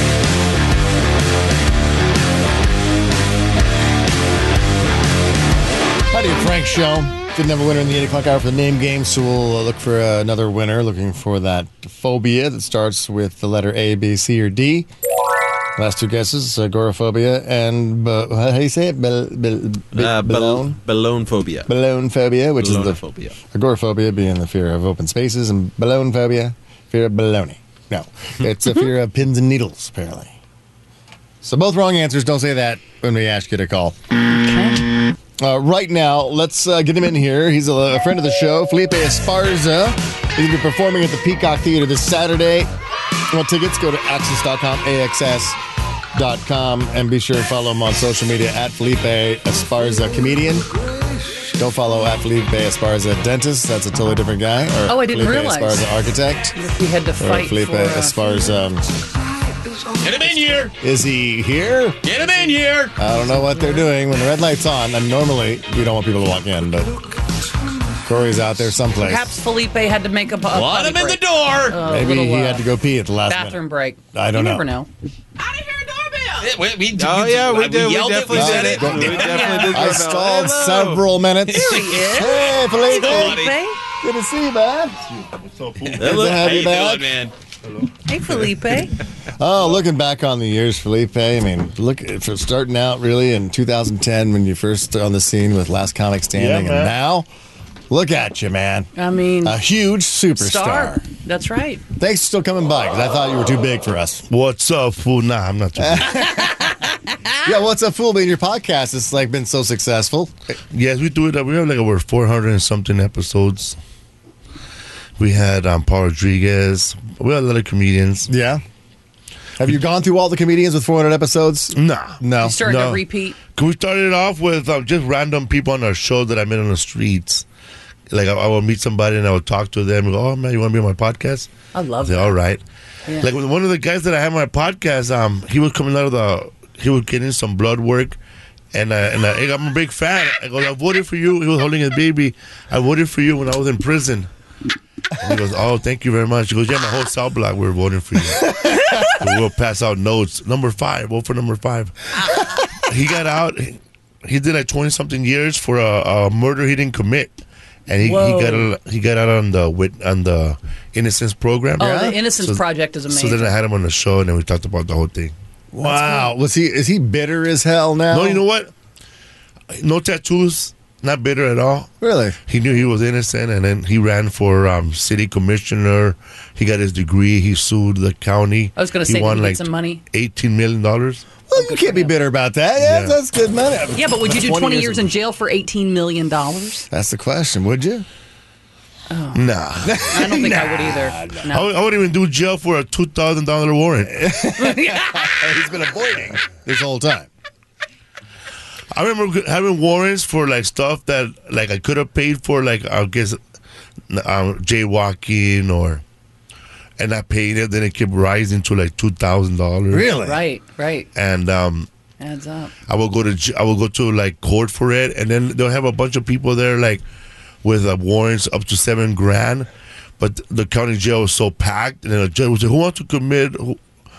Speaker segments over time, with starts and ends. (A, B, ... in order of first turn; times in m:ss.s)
0:06.1-0:14.9 A
0:15.8-0:20.8 A
0:19.9-0:21.7 B
0:21.7-0:30.3 A
0:22.6-0:23.4 B
0:31.4-0:34.0 A
0:34.3-0:34.9 C
0:35.4-0:42.7 A
0:43.3-0:45.6 A
0:46.1-0:50.7 A
0:51.5-0:56.6 A
0:54.9-0:55.9 C
0:56.6-0:58.4 C
0:57.2-0:58.9 A
1:00.0-1:00.7 D
1:00.7-1:02.0 A
1:02.0-1:03.0 D
1:03.0-1:07.2 A
1:08.0-1:09.4 A
1:09.0-1:12.7 C
1:10.5-1:11.8 D
1:11.8-1:13.6 A
1:13.3-1:14.9 C
1:14.1-1:14.7 A
1:16.4-1:19.7 D
1:16.9-1:21.1 B
1:18.3-1:23.5 A
1:19.2-1:19.9 C
1:21.5-1:23.6 D
1:21.5-1:23.8 C
1:24.0-1:25.0 A
1:25.1-1:26.3 E
1:25.9-1:27.3 D
1:26.0-1:27.2 A
1:26.1-1:26.8 B
1:28.1-1:29.0 C
1:29.3-1:37.3 A
1:36.3-1:37.0 E
1:37.9-1:38.9 A
1:39.0-1:39.6 C
1:39.4-1:41.0 A
1:40.4-1:41.8 C
1:42.0-1:44.2 A
1:44.3-1:46.4 E
1:45.8-1:46.6 A
1:47.4-1:50.3 A
1:50.7-1:53.8 E
1:55.2-1:58.3 E
1:58.3-1:58.6 A
1:59.6-2:02.6 A
2:01.7-2:07.5 E
2:02.4-2:03.4 C
2:08.1-2:11.5 E
2:11.7-2:12.3 C
2:12.0-2:12.6 E
2:13.2-2:18.2 E
2:18.7-2:24.3 E
2:25.2-2:28.6 E
2:29.1-2:32.1 E
2:32.7-2:37.3 E
2:37.9-2:45.3 E
2:38.0-2:38.7 C
2:41.8-2:43.5 C
2:41.8-2:42.2 A
2:45.7-2:48.4 A
2:45.8-2:46.3 C
2:48.1-2:48.7 E
2:49.7-2:51.9 E
2:52.0-2:52.4 A
2:52.5-3:01.3 E
2:58.8-3:00.0 C
3:01.5-3:05.1 A
3:01.5-3:02.1 C
3:02.8-3:03.2 E
3:03.9-3:06.9 C
3:06.9-3:08.1 A
3:09.1-3:09.4 C
3:09.3-3:10.1 E
3:09.8-3:11.5 A
3:10.1-3:11.7 C
3:11.5-3:14.2 E
3:14.1-3:17.3 A
3:14.5-3:15.5 C
3:18.9-3:23.4 E
3:24.1-3:26.0 E
3:27.0-3:30.1 E
3:29.9-3:30.4 A
3:30.2-3:31.1 C
3:31.2-3:31.9 E
3:32.2-3:32.7 C
3:32.9-3:37.0 E
3:37.6-3:43.8 E